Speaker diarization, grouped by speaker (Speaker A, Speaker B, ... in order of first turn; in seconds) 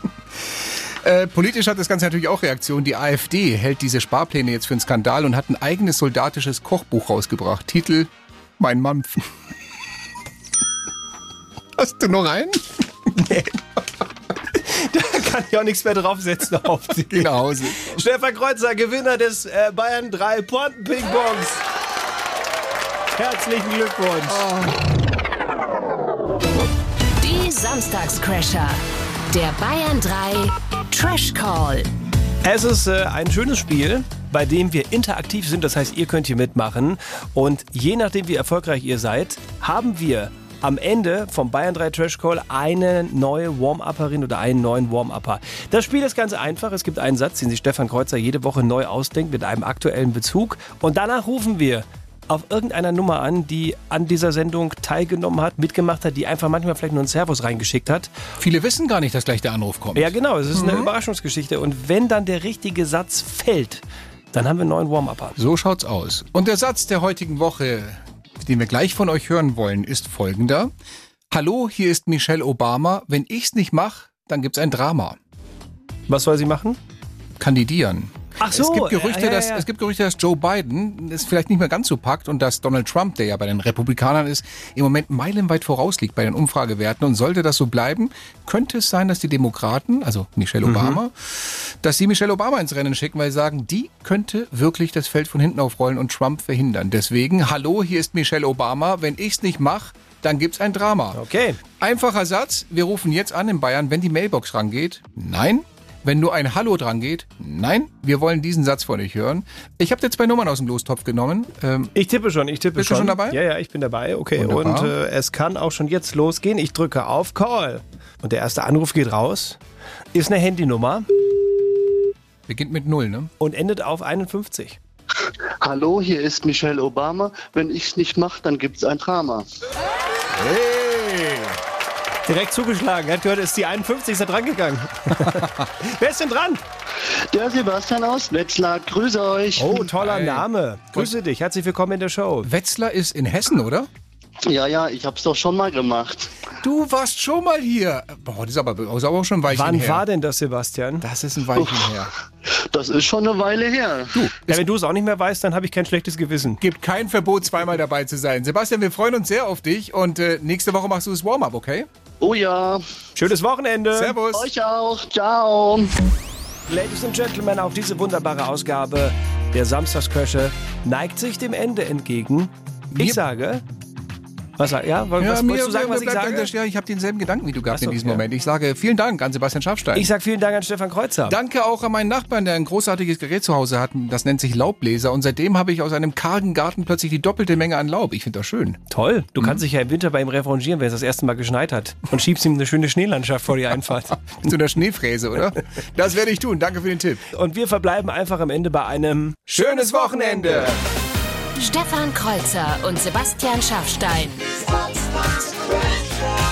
Speaker A: 0.4-9.3, 11.8-13.2, 17.0-18.0, 24.3-24.8, 58.4-60.9, 65.4-70.7, 71.3-75.2, 77.4-101.2, 101.8-111.9, 112.8-113.4, 114.4-115.0, 122.5-123.3, 130.3-131.6, 139.7-141.1, 142.4-143.9, 146.6-150.1, 151.0-152.1, 154.2-154.7, 156.6-161.9, 163.9-164.5, 173.0-173.2, 175.2-180.1, 181.3-188.8, 194.4-197.2, 199.5-200.8
Speaker B: 13.2-13.5, 14.5-21.6, 23.1-24.5, 32.4-58.1, 60.0-65.4, 76.1-76.8, 78.4-79.7, 90.7-91.0, 101.1-101.6, 112.0-119.6, 120.1-121.1, 123.4-124.8, 132.3-136.6, 139.6-142.5, 149.5-151.1, 154.5-156.6, 163.2-164.2, 166.7-173.6, 174.6-176.5, 177.7-178.2, 179.9-181.4, 188.9-194.4, 197.3-200.8
Speaker C: 27.2-31.9, 201.6-204.7
Speaker D: 125.6-129.4, 137.3-139.8, 144.5-146.3, 151.6-151.9, 152.7-154.3, 162.2-162.8, 164.3-165.9